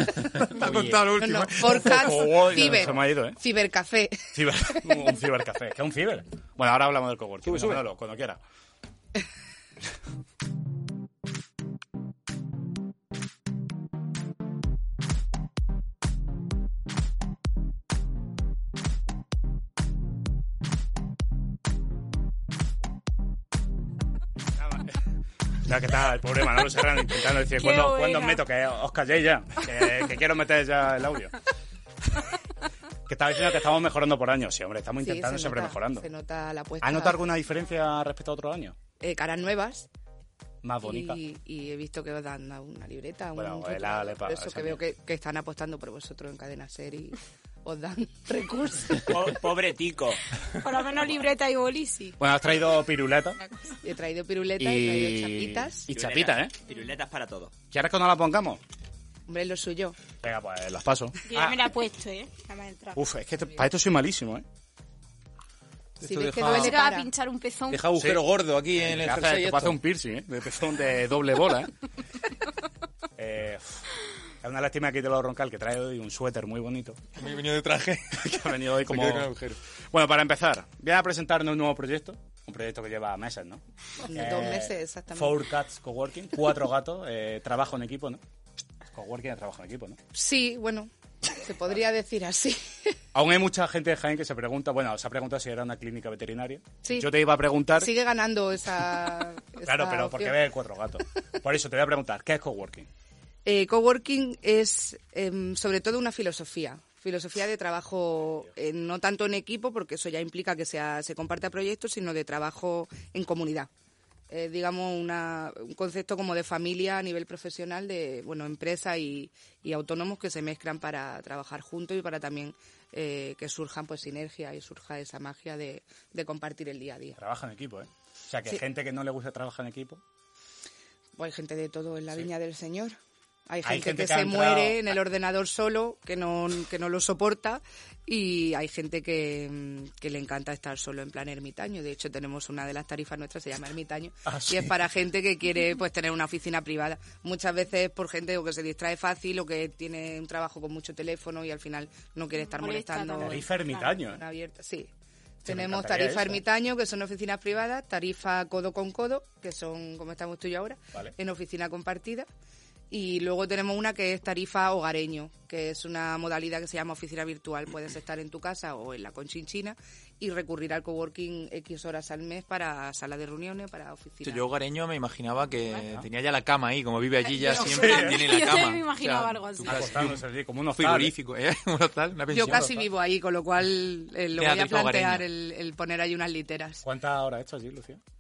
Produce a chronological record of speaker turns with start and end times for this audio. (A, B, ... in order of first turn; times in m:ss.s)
0:00.3-0:02.9 A
0:00.6-0:01.0 B
0:01.1-0:05.1 C
0:01.6-0:03.4 B
0:04.3-0:08.4 B
0:07.4-0:07.8 A
0:24.6-0:25.0 B
0:25.6-0:31.4 B
0:27.6-0:28.4 D
0:33.1-0:36.1 B
0:35.0-0:37.3 C
0:36.8-0:38.8 B
0:39.0-0:39.9 C
0:40.6-0:41.2 B
0:40.8-0:49.2 C
0:43.4-0:44.8 B
0:49.1-0:50.4 E
0:50.6-0:52.2 D
0:52.2-0:53.4 B
0:53.8-0:55.9 C
0:54.6-0:56.5 B
0:55.9-0:57.5 E
0:57.7-0:58.6 B
0:59.3-1:00.0 C
1:00.2-1:01.6 B
1:01.3-1:03.0 D
1:03.0-1:04.4 B
1:06.0-1:06.8 A
1:06.0-1:07.1 C
1:06.4-1:07.9 D
1:07.7-1:09.8 A
1:07.9-1:11.7 B
1:13.2-1:13.8 B
1:14.4-1:17.0 B
1:17.2-1:19.6 A
1:18.2-1:19.3 B
1:19.9-1:28.2 B
1:24.0-1:25.5 C
1:28.9-1:30.0 B
1:30.1-1:33.0 C
1:33.1-1:37.9 B
1:36.8-1:37.1 C
1:37.7-1:40.4 C
1:39.6-1:42.9 B
1:43.4-1:53.7 C
1:54.3-2:07.2 C
2:07.2-2:10.0 B
2:11.2-2:34.9 C
2:13.6-2:14.8 B
2:24.2-2:24.8 B
2:32.4-2:33.9 D
2:33.2-2:34.2 B
2:35.4-2:36.4 B
2:35.4-2:42.3 C
2:42.9-2:54.5 C
2:54.2-3:02.7 A
2:55.8-2:56.1 B
2:57.4-2:59.9 D
2:57.7-2:58.3 B
2:59.6-3:01.2 B
3:02.3-3:06.8 C
3:02.4-3:02.8 B
3:04.3-3:05.2 A
3:06.8-3:08.0 B